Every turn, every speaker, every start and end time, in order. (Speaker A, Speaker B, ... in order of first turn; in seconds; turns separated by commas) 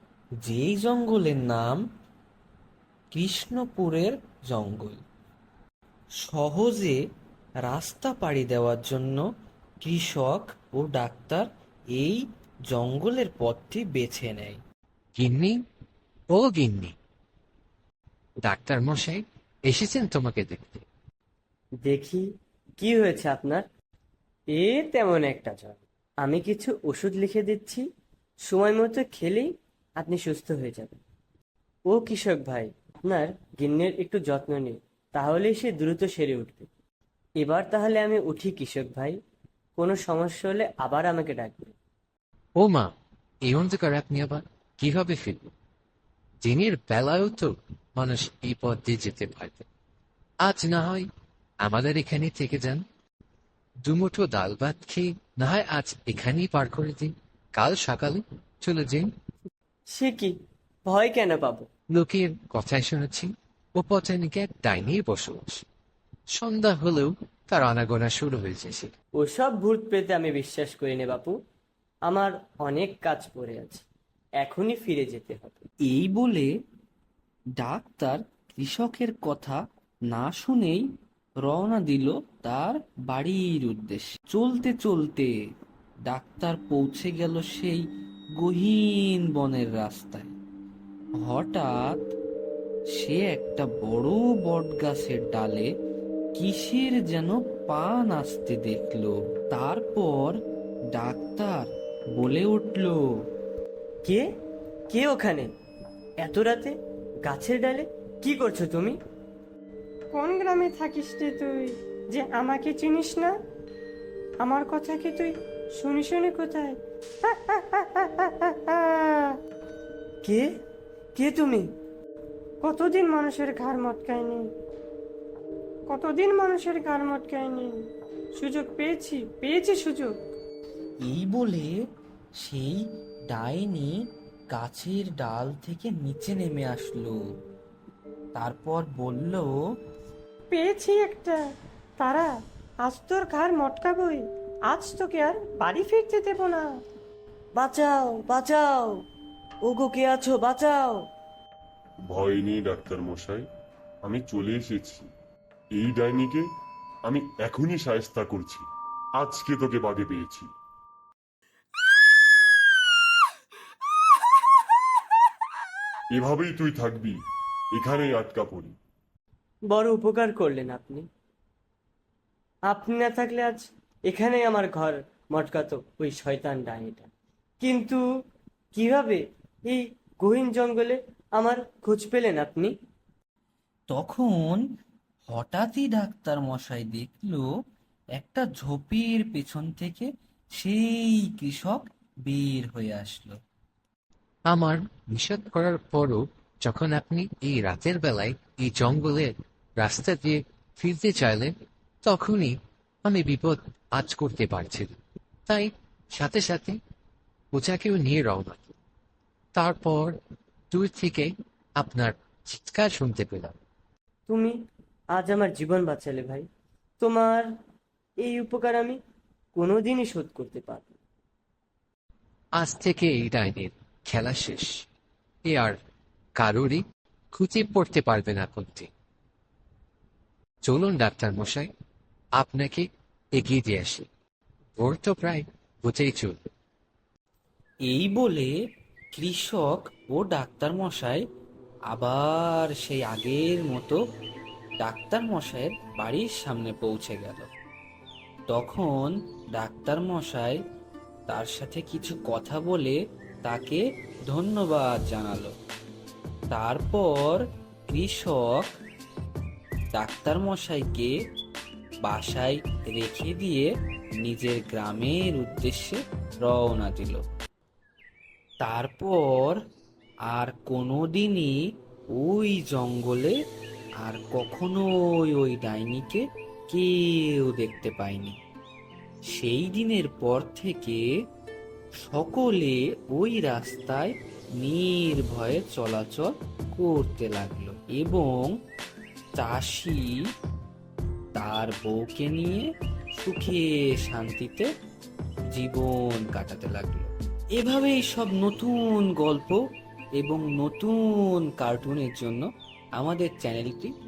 Speaker A: 0.4-1.8, Speaker A: 3.1-5.0, Speaker A: 6.2-7.0, Speaker A: 7.7-9.2, Speaker A: 9.8-14.6, Speaker B: 15.2-15.6, Speaker B: 16.3-16.9, Speaker B: 18.4-20.8, Speaker C: 21.8-22.2, Speaker C: 22.8-23.6, Speaker C: 24.5-27.8, Speaker C: 28.5-31.0, Speaker C: 31.9-36.7, Speaker C: 37.4-39.2, Speaker C: 39.8-41.7, Speaker B: 42.6-42.9, Speaker B: 43.4-45.5, Speaker B: 46.4-49.7, Speaker B: 50.4-51.1, Speaker B: 51.6-52.8, Speaker B: 53.8-59.1, Speaker C: 59.9-61.6, Speaker B: 61.9-65.6, Speaker B: 66.3-68.9, Speaker C: 69.2-71.4, Speaker C: 72.1-73.9, Speaker C: 74.4-75.6, Speaker A: 75.8-76.5, Speaker A: 77.6-80.8, Speaker A: 81.4-85.3, Speaker A: 86.1-87.8, Speaker A: 88.4-90.3, Speaker A: 91.2-92.1, Speaker A: 93.0-95.7, Speaker A: 96.3-100.4, Speaker A: 100.9-103.0, Speaker C: 104.9-105.5, Speaker C: 106.2-106.7, Speaker C: 107.3-109.0, Speaker D: 110.1-113.3, Speaker D: 114.4-119.4, Speaker C: 121.1-121.7, Speaker D: 122.6-124.5, Speaker D: 125.9-127.8, Speaker D: 128.3-130.1, Speaker A: 131.0-131.8, Speaker A: 132.4-134.0, Speaker A: 134.5-137.2, Speaker A: 138.3-139.6, Speaker D: 140.5-141.4, Speaker D: 142.0-142.3, Speaker D: 142.8-146.7, Speaker C: 147.6-149.0, Speaker C: 149.6-151.1, Speaker E: 152.0-153.5, Speaker E: 154.0-155.1, Speaker E: 155.7-156.5, Speaker E: 157.0-160.5, Speaker E: 166.1-168.8, Speaker C: 169.7-171.1, Speaker C: 172.7-177.1, Speaker C: 177.6-178.0, Speaker C: 178.7-182.7, Speaker A: 183.9-184.6, Speaker A: 185.3-187.5, Speaker A: 188.2-193.4, Speaker B: 194.5-201.5, Speaker B: 202.0-206.8, Speaker B: 207.5-208.7, Speaker B: 209.5-210.2, Speaker B: 210.7-213.6, Speaker C: 214.3-214.5, Speaker C: 215.1-216.4, Speaker C: 217.0-217.5, Speaker C: 218.2-219.0, Speaker C: 219.6-220.9, Speaker B: 222.6-224.8, Speaker B: 225.4-225.8, Speaker B: 226.4-228.9, Speaker B: 230.6-231.7, Speaker B: 232.4-234.1, Speaker B: 234.8-236.4, Speaker A: 237.8-238.5, Speaker A: 239.1-241.2, Speaker A: 241.9-244.0, Speaker A: 244.8-247.5, Speaker A: 248.5-250.6, Speaker A: 251.3-255.5, Speaker A: 256.5-258.8, Speaker A: 259.9-261.1, Speaker A: 262.0-263.7, Speaker A: 264.2-267.2, Speaker A: 268.6-269.6, Speaker A: 270.3-271.6, Speaker A: 272.1-273.4, Speaker A: 274.0-278.4, Speaker A: 279.3-281.0, Speaker A: 282.0-288.6, Speaker A: 289.4-290.1, Speaker A: 291.3-294.7, Speaker A: 295.5-299.6, Speaker A: 300.2-303.9